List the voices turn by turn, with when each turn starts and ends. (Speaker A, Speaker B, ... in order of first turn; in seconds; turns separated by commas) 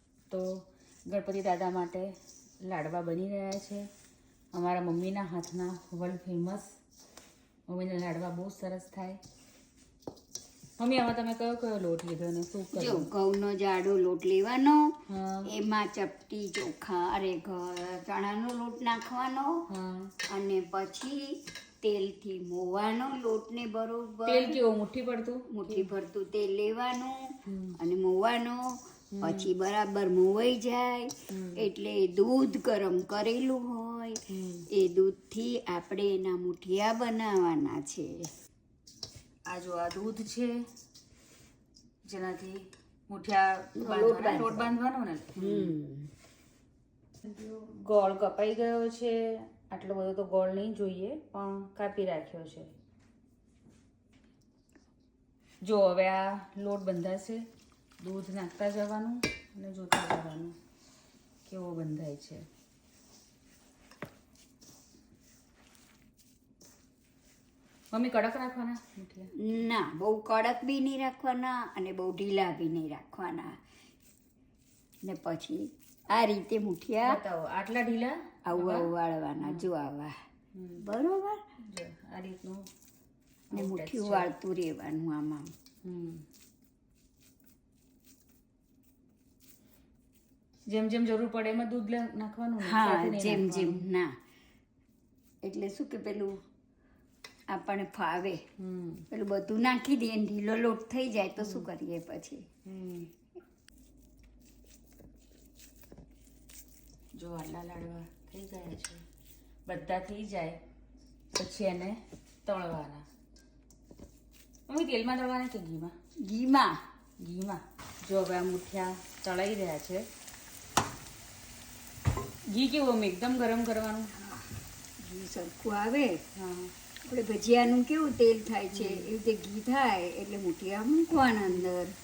Speaker A: 0.3-3.9, Speaker A: 4.5-6.7, Speaker A: 7.7-9.2, Speaker A: 10.8-13.1, Speaker B: 12.7-19.6, Speaker A: 15.1-15.5, Speaker A: 19.7-20.1, Speaker B: 20.3-24.6, Speaker A: 24.2-25.9, Speaker B: 25.5-38.3, Speaker A: 27.4-27.8, Speaker A: 29.1-29.5, Speaker A: 31.3-31.7, Speaker A: 34.3-34.7, Speaker A: 39.5-40.6, Speaker A: 42.1-45.7, Speaker B: 43.8-44.7, Speaker B: 45.4-46.1, Speaker A: 47.2-52.7, Speaker A: 55.6-57.4, Speaker A: 58.0-60.5, Speaker A: 61.5-62.4, Speaker A: 67.9-69.3, Speaker B: 69.4-73.6, Speaker B: 75.0-77.2, Speaker A: 77.0-78.9, Speaker B: 78.5-80.1, Speaker A: 79.4-79.7, Speaker A: 80.5-80.8, Speaker B: 80.8-81.4, Speaker A: 81.6-82.7, Speaker A: 83.5-84.3, Speaker B: 83.5-85.5, Speaker A: 85.8-86.2, Speaker A: 90.7-93.8, Speaker B: 92.6-94.1, Speaker B: 95.4-96.4, Speaker B: 97.5-98.4, Speaker A: 98.6-99.0, Speaker B: 99.1-102.4, Speaker A: 101.4-101.7, Speaker A: 102.7-103.1, Speaker A: 107.2-109.0, Speaker A: 109.7-110.6, Speaker A: 111.3-113.0, Speaker A: 114.7-115.9, Speaker B: 116.2-116.8, Speaker A: 117.2-120.0, Speaker A: 122.5-124.1, Speaker B: 124.1-126.2, Speaker A: 126.3-126.7, Speaker B: 127.0-131.9, Speaker A: 128.7-129.1